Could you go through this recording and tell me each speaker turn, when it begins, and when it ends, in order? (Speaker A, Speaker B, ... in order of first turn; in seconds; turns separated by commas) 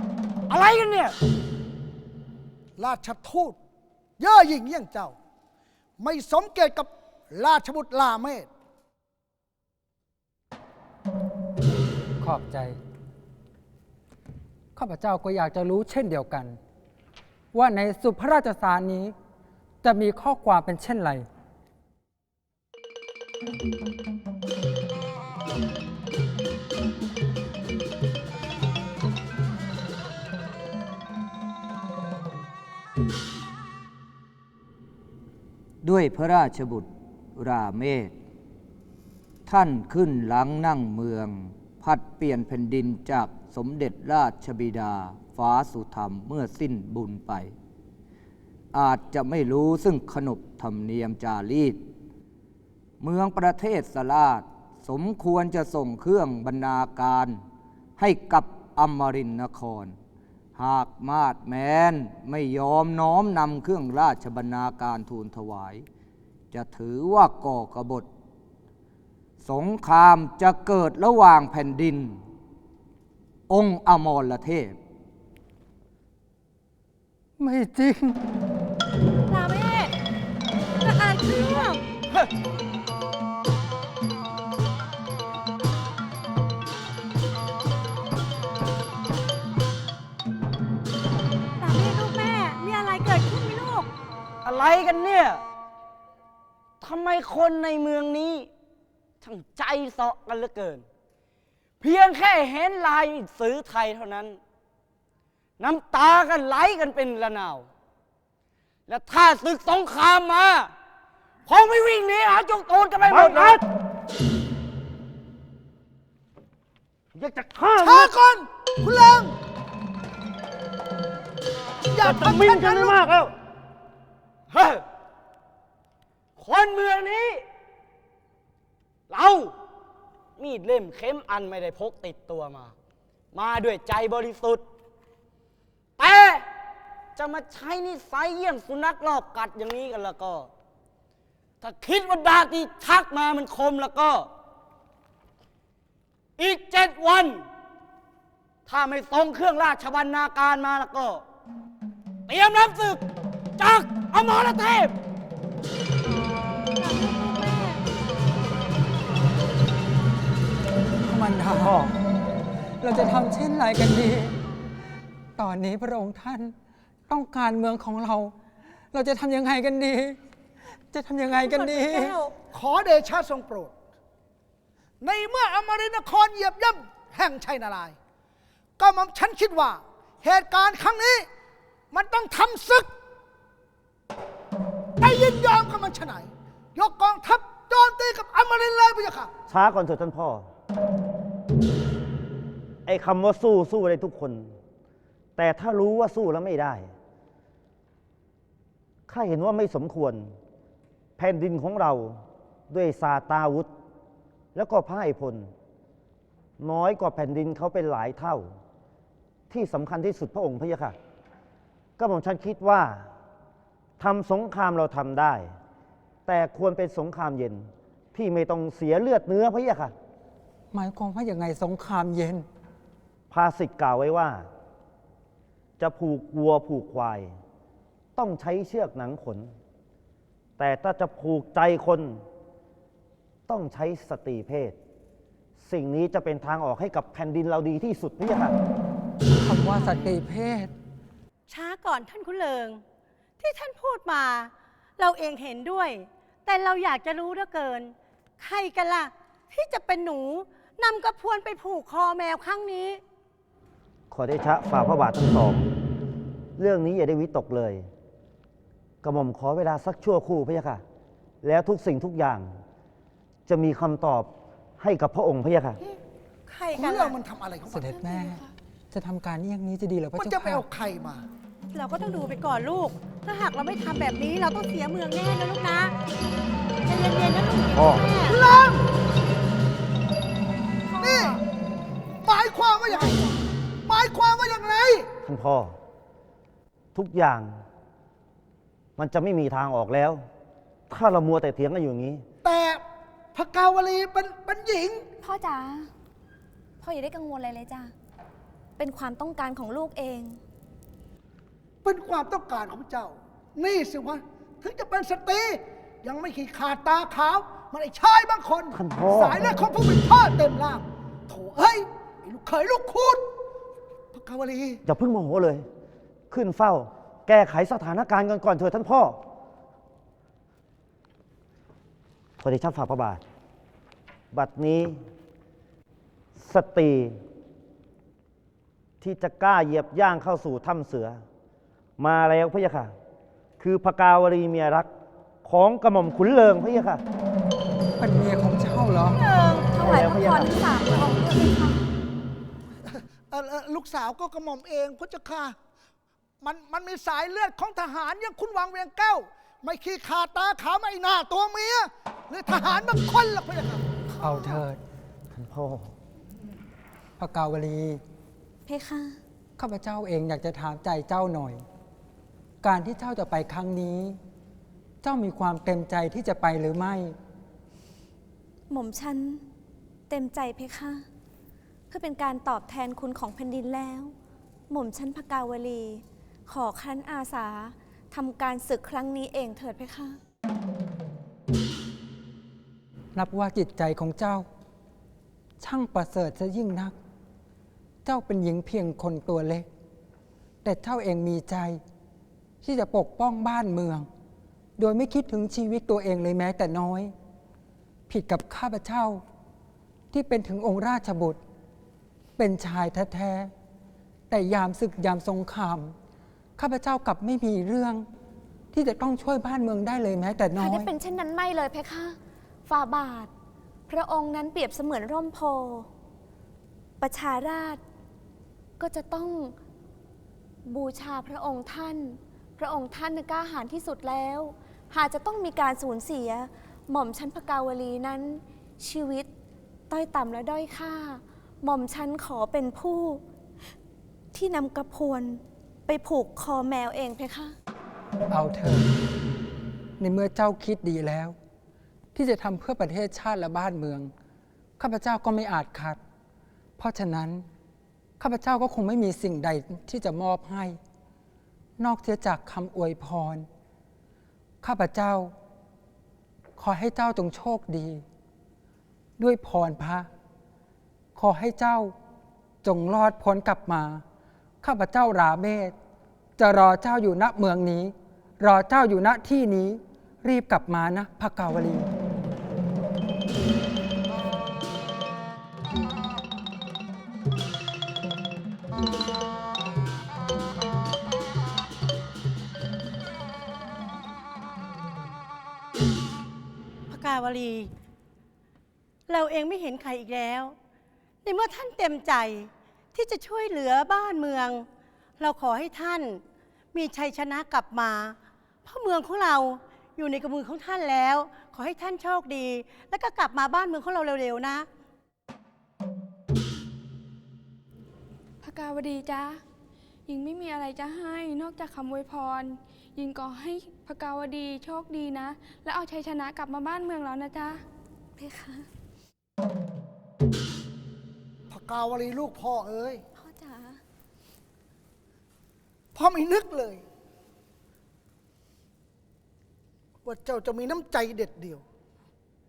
Speaker A: 0.5-1.1, Speaker B: 2.8-3.5, Speaker B: 4.2-5.1, Speaker B: 6.0-8.5, Speaker C: 12.2-12.8, Speaker C: 14.8-16.6, Speaker C: 17.5-19.1, Speaker C: 19.8-21.3, Speaker D: 35.8-38.1, Speaker D: 39.5-47.5, Speaker D: 48.7-51.8, Speaker D: 53.0-57.4, Speaker D: 58.0-60.0, Speaker D: 60.5-65.8, Speaker D: 66.5-68.0, Speaker D: 69.4-72.2, Speaker D: 73.5-74.8, Speaker C: 77.4-78.2, Speaker E: 79.3-79.9, Speaker E: 80.8-81.8, Speaker E: 91.6-93.9, Speaker A: 94.4-95.4, Speaker A: 96.8-98.5, Speaker A: 99.2-100.8, Speaker A: 101.8-104.4, Speaker A: 105.6-107.7, Speaker A: 108.9-110.7, Speaker A: 111.5-113.6, Speaker F: 113.1-113.6, Speaker F: 117.1-118.1, Speaker B: 117.8-119.3, Speaker B: 121.9-123.0, Speaker F: 122.0-123.3, Speaker A: 124.5-124.8, Speaker A: 126.4-127.4, Speaker A: 129.1-129.5, Speaker A: 130.4-132.7, Speaker A: 133.3-134.7, Speaker A: 136.0-136.4, Speaker A: 137.2-140.5, Speaker A: 141.6-144.3, Speaker A: 146.4-147.4, Speaker A: 148.7-151.2, Speaker A: 152.3-153.0, Speaker A: 153.6-154.9, Speaker E: 156.6-157.8, Speaker C: 161.0-161.9, Speaker C: 162.8-164.3, Speaker C: 165.4-166.5, Speaker C: 167.1-168.3, Speaker C: 168.9-170.2, Speaker C: 170.9-172.2, Speaker E: 171.3-172.3, Speaker B: 172.5-173.7, Speaker B: 175.0-177.9, Speaker B: 178.8-181.2, Speaker B: 181.9-182.8, Speaker B: 185.0-189.3, Speaker F: 189.5-190.5, Speaker F: 192.8-194.6, Speaker F: 195.4-196.9, Speaker F: 199.1-200.3, Speaker F: 201.2-203.7, Speaker F: 204.5-205.5, Speaker F: 206.6-208.5, Speaker F: 209.5-210.9, Speaker F: 212.0-213.1, Speaker F: 214.0-215.5, Speaker F: 216.2-219.9, Speaker C: 220.7-222.5, Speaker F: 223.3-224.5, Speaker F: 225.8-227.3, Speaker F: 228.1-229.5, Speaker F: 230.6-232.2, Speaker F: 233.5-234.8, Speaker F: 235.6-238.6, Speaker C: 239.3-240.7, Speaker E: 241.5-242.8, Speaker E: 243.4-253.0, Speaker F: 254.1-255.7, Speaker F: 256.6-257.9, Speaker F: 259.0-260.8, Speaker F: 261.4-262.6, Speaker F: 263.5-265.8, Speaker E: 266.5-267.1, Speaker B: 266.7-268.1, Speaker C: 267.7-270.6, Speaker B: 270.1-271.2, Speaker E: 271.7-275.9, Speaker E: 276.9-278.4, Speaker F: 277.8-278.0, Speaker B: 278.3-278.8, Speaker B: 281.0-281.4, Speaker B: 282.2-283.3, Speaker B: 283.9-285.1, Speaker F: 285.2-285.8, Speaker F: 286.9-287.6, Speaker F: 289.0-290.2, Speaker F: 290.9-292.2, Speaker B: 292.4-292.8, Speaker B: 293.3-295.0, Speaker G: 295.2-295.9, Speaker G: 296.8-297.9, Speaker G: 298.8-300.4, Speaker B: 301.8-313.2, Speaker F: 308.7-309.4, Speaker B: 314.1-314.8, Speaker F: 314.9-315.6, Speaker F: 316.3-319.2, Speaker F: 322.4-323.2, Speaker F: 324.3-325.0, Speaker F: 326.3-327.2, Speaker F: 329.0-331.2, Speaker F: 332.0-332.9, Speaker F: 333.6-334.9, Speaker F: 335.4-337.0, Speaker C: 338.0-339.2, Speaker G: 339.2-341.9, Speaker F: 339.8-340.5, Speaker B: 343.3-345.5, Speaker B: 346.4-353.9, Speaker C: 354.2-354.8, Speaker F: 355.3-355.9, Speaker C: 357.2-358.0, Speaker G: 358.6-359.2, Speaker C: 359.6-361.6, Speaker C: 362.6-364.2, Speaker C: 365.0-367.1, Speaker G: 368.7-369.5, Speaker G: 370.1-371.1, Speaker G: 371.9-374.1, Speaker G: 374.7-380.2, Speaker C: 383.1-384.5, Speaker C: 385.6-386.9, Speaker C: 388.0-389.7, Speaker C: 390.6-391.8, Speaker C: 392.6-394.1, Speaker C: 394.8-397.1, Speaker C: 398.1-399.2, Speaker C: 400.1-401.4, Speaker C: 402.4-403.5, Speaker C: 404.3-405.9, Speaker C: 406.6-408.1, Speaker C: 408.7-410.9, Speaker G: 410.6-413.3, Speaker G: 413.9-415.9, Speaker G: 417.0-417.8, Speaker G: 418.8-419.6, Speaker G: 420.6-429.3, Speaker G: 429.9-433.2, Speaker G: 434.3-437.5, Speaker C: 438.3-438.9, Speaker C: 440.0-441.3, Speaker C: 442.1-444.1, Speaker C: 444.8-446.0, Speaker C: 446.8-447.4, Speaker C: 448.2-450.8, Speaker C: 451.8-453.5, Speaker C: 454.6-455.3, Speaker C: 456.6-458.0, Speaker C: 459.2-460.1, Speaker C: 461.1-461.9, Speaker C: 462.6-464.0, Speaker C: 464.6-465.7, Speaker C: 466.4-471.9, Speaker E: 486.9-487.7, Speaker E: 489.1-490.5, Speaker E: 491.2-494.6, Speaker E: 495.2-496.2, Speaker E: 496.7-504.7, Speaker H: 508.4-509.4, Speaker H: 510.1-517.6, Speaker G: 518.2-518.7, Speaker B: 521.5-523.0, Speaker G: 523.1-523.8, Speaker B: 525.9-526.8, Speaker B: 530.0-531.6